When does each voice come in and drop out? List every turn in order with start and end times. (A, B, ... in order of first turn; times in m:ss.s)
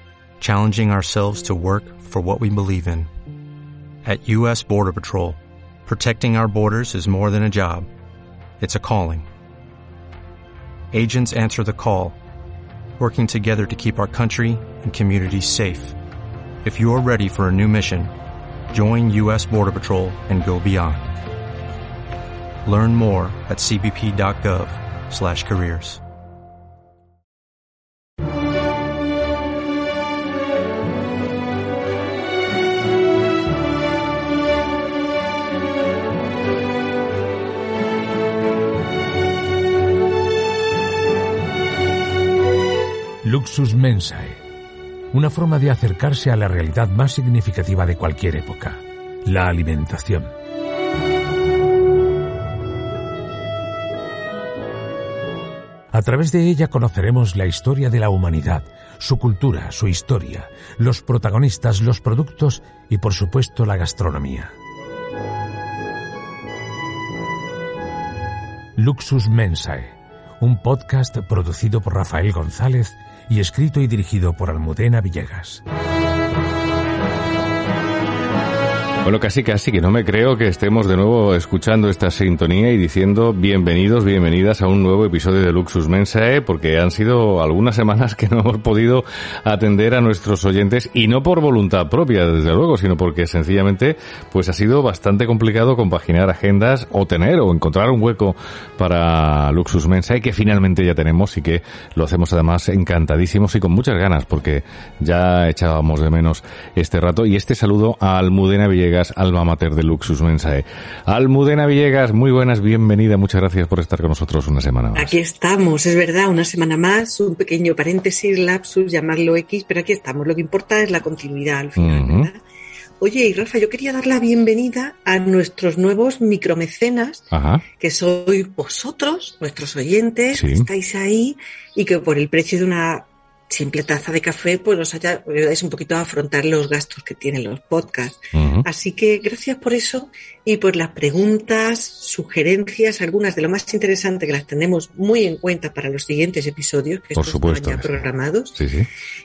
0:00.4-0:03.1 A
0:04.0-0:07.9 A
0:08.6-0:09.3 A
0:10.9-0:12.2 A
0:13.0-0:16.0 A
0:16.6-0:18.1 A
0:18.7-0:21.2 A
0:22.6-0:26.0 A
0:43.2-0:44.4 B
0:45.1-0:50.3 B
0:55.9-1:04.5 B
1:08.8-1:15.6 B
1:19.0-1:55.2 C
1:54.9-2:02.4 D
2:01.8-2:02.3 C
2:03.0-2:28.6 D
2:07.3-2:07.6 C
2:10.3-2:10.7 C
2:18.3-2:18.6 C
2:27.2-2:28.0 C
2:28.6-2:28.9 C